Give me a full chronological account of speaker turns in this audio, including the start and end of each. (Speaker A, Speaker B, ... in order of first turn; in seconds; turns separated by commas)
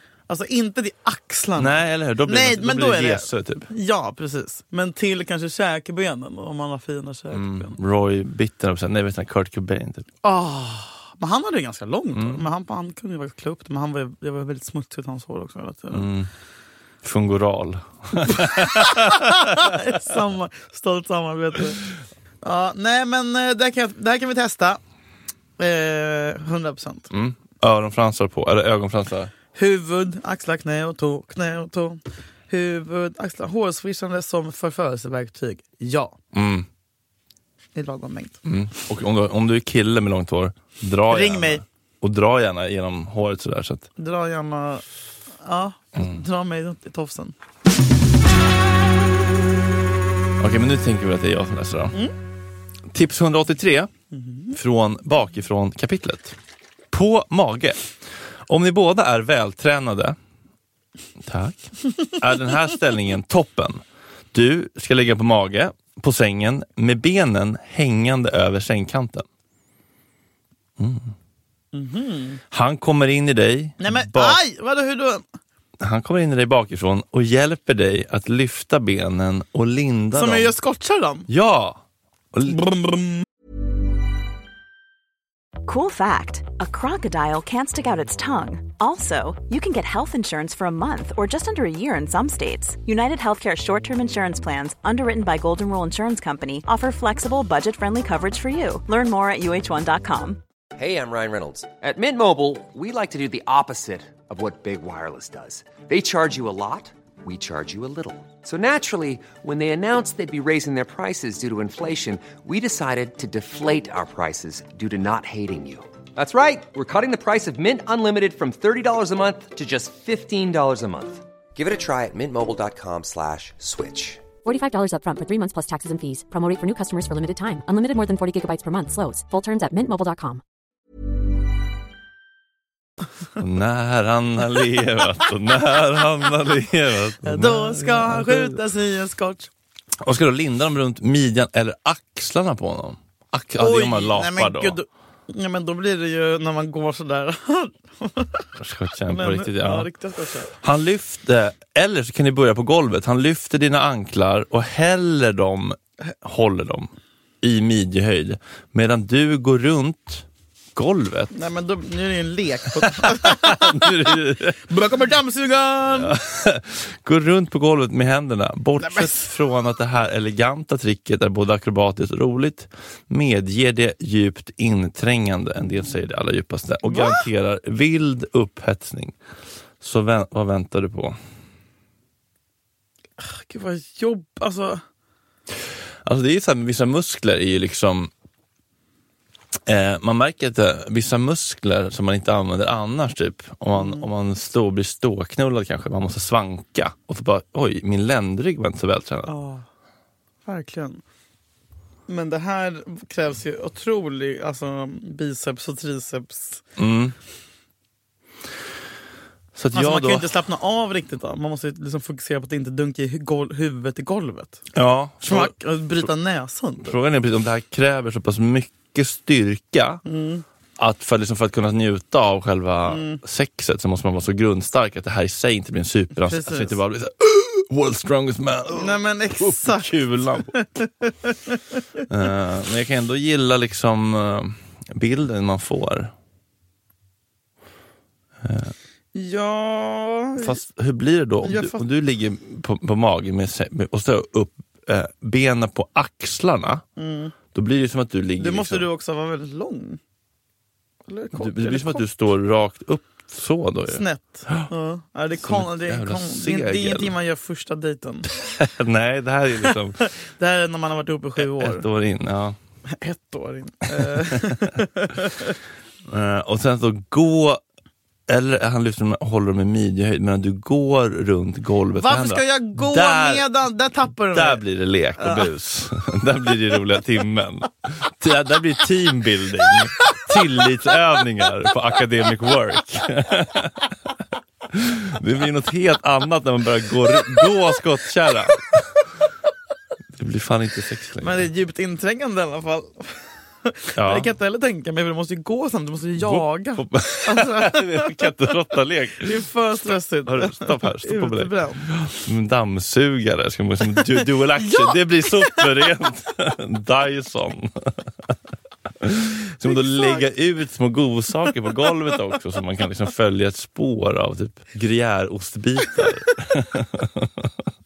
Speaker A: 0.3-7.8, Speaker B: 1.6-3.7, Speaker B: 7.3-10.1, Speaker A: 10.2-16.1, Speaker B: 12.1-12.4, Speaker B: 15.9-16.3, Speaker B: 17.0-19.9, Speaker A: 18.3-21.8, Speaker A: 22.4-24.8, Speaker A: 25.6-27.1, Speaker B: 27.1-29.3, Speaker A: 29.5-36.2, Speaker B: 36.3-36.7, Speaker A: 37.8-38.4, Speaker B: 38.5-43.9, Speaker A: 41.1-41.6, Speaker A: 44.0-44.8, Speaker A: 45.4-47.3, Speaker B: 50.4-52.0, Speaker B: 52.9-53.9, Speaker A: 54.1-54.6, Speaker B: 54.5-56.4, Speaker B: 56.9-57.9, Speaker B: 58.5-60.2, Speaker B: 61.2-69.3, Speaker B: 70.8-71.1, Speaker A: 71.7-72.4, Speaker B: 72.5-74.4, Speaker A: 73.8-75.2, Speaker B: 75.8-80.5, Speaker A: 80.1-81.3, Speaker B: 81.3-81.8, Speaker B: 82.3-82.8, Speaker A: 82.5-83.2, Speaker C: 85.7-100.4, Speaker D: 100.8-124.2, Speaker E: 124.4-130.4, Speaker B: 133.4-138.6, Speaker A: 137.2-139.5, Speaker B: 140.0-144.8, Speaker A: 143.6-148.5, Speaker B: 148.6-149.9, Speaker A: 149.1-150.5, Speaker B: 150.5-156.9, Speaker B: 157.4-161.3, Speaker A: 161.3-164.2, Speaker B: 162.8-164.7, Speaker A: 164.7-166.2, Speaker B: 166.0-179.2, Speaker A: 168.8-169.2, Speaker A: 176.9-177.2, Speaker B: 179.8-181.2, Speaker A: 183.2-184.8, Speaker B: 186.0-188.1, Speaker B: 189.7-199.3, Speaker A: 193.7-194.1, Speaker A: 199.3-199.7, Speaker A: 200.5-201.0, Speaker A: 202.1-206.6, Speaker B: 206.8-207.2, Speaker B: 209.6-210.3, Speaker A: 209.7-214.6, Speaker B: 214.7-215.5, Speaker A: 215.2-216.9, Speaker B: 216.8-220.0, Speaker A: 220.1-220.4, Speaker B: 220.8-230.5, Speaker A: 222.9-223.2, Speaker A: 226.2-226.8, Speaker A: 228.7-231.6, Speaker B: 232.1-236.1, Speaker B: 238.4-238.7, Speaker A: 239.1-240.6, Speaker B: 240.4-246.8, Speaker A: 241.4-241.8, Speaker A: 247.0-247.3, Speaker B: 247.5-248.9, Speaker A: 248.4-250.0, Speaker A: 251.1-252.1, Speaker B: 251.3-254.7, Speaker A: 253.9-258.4, Speaker B: 255.4-257.1, Speaker B: 258.4-260.0, Speaker A: 260.0-261.9, Speaker B: 261.4-262.6, Speaker A: 262.9-265.6, Speaker B: 263.9-264.7, Speaker B: 266.1-267.6, Speaker B: 268.3-273.5, Speaker A: 271.9-274.6, Speaker B: 274.3-283.9, Speaker A: 275.2-275.5, Speaker A: 280.0-280.7, Speaker B: 284.7-288.8, Speaker B: 290.2-291.5, Speaker A: 291.2-298.3, Speaker B: 294.0-294.3, Speaker B: 296.2-299.4, Speaker A: 299.2-301.9, Speaker B: 300.3-308.0, Speaker A: 304.0-305.9, Speaker B: 309.0-317.5, Speaker A: 309.6-310.3